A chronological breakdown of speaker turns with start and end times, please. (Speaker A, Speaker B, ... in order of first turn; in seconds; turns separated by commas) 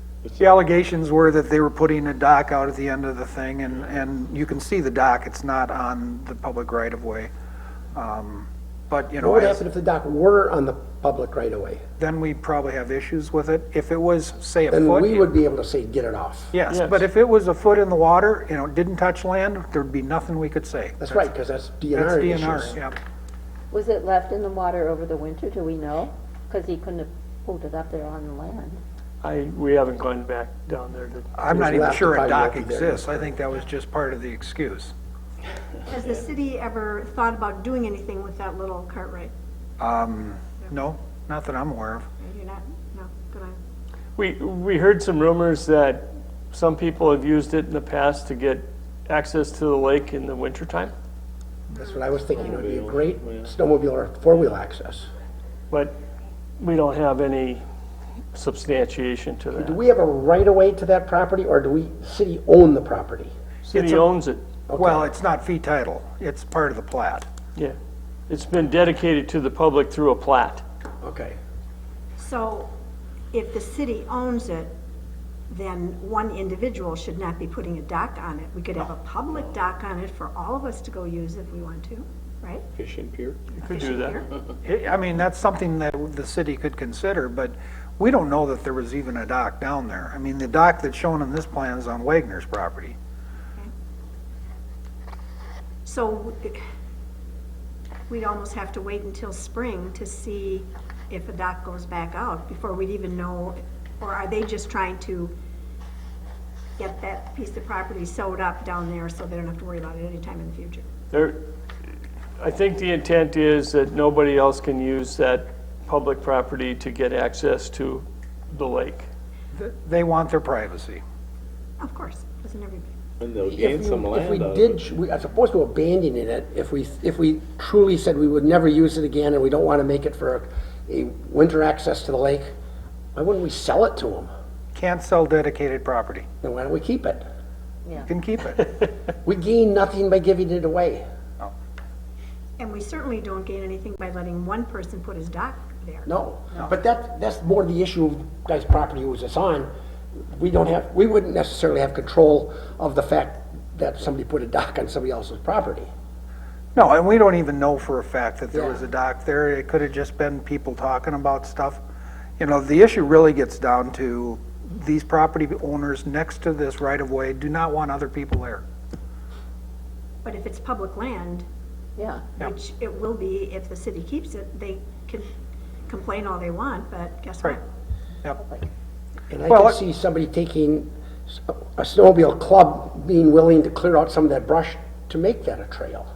Speaker A: 0.2-0.5, Speaker B: 0.4-7.3, Speaker B: 7.9-9.6, Speaker C: 9.2-11.8, Speaker B: 12.0-15.3, Speaker C: 14.7-16.5, Speaker B: 16.5-21.2, Speaker D: 16.7-17.0, Speaker C: 21.0-22.8, Speaker B: 21.9-23.0, Speaker E: 23.7-28.8, Speaker D: 29.2-31.3, Speaker B: 31.4-34.9, Speaker C: 31.5-33.3, Speaker F: 36.0-39.3, Speaker B: 39.8-42.1, Speaker F: 42.2-43.6, Speaker D: 44.2-50.9, Speaker C: 51.7-55.1, Speaker A: 52.5-53.5, Speaker D: 55.7-56.0, Speaker D: 56.6-57.6, Speaker D: 58.3-59.8, Speaker C: 59.5-63.3, Speaker D: 63.6-64.4, Speaker B: 63.7-64.0, Speaker C: 64.7-65.1, Speaker B: 64.8-67.3, Speaker D: 68.3-70.6, Speaker C: 71.0-71.3, Speaker F: 72.2-72.7, Speaker F: 73.3-74.7, Speaker F: 75.5-82.6, Speaker A: 82.7-83.4, Speaker D: 83.5-84.2, Speaker F: 83.7-84.2, Speaker B: 84.6-93.0, Speaker F: 95.8-96.6, Speaker F: 98.1-105.3, Speaker F: 106.8-110.8, Speaker D: 111.1-111.4, Speaker D: 112.4-119.1, Speaker B: 119.5-121.0, Speaker F: 121.8-122.9, Speaker A: 123.2-124.8, Speaker C: 123.5-132.5, Speaker C: 133.1-134.3, Speaker B: 134.7-136.2, Speaker C: 136.4-137.2, Speaker B: 138.0-138.7, Speaker C: 139.2-141.0, Speaker F: 142.6-146.1, Speaker C: 146.1-155.9, Speaker B: 156.7-161.8, Speaker C: 158.5-158.8, Speaker B: 162.4-168.6, Speaker F: 170.2-171.4, Speaker E: 172.0-172.2, Speaker F: 172.4-175.3, Speaker F: 175.9-177.6, Speaker E: 178.4-178.7, Speaker C: 179.3-186.1, Speaker B: 179.5-179.8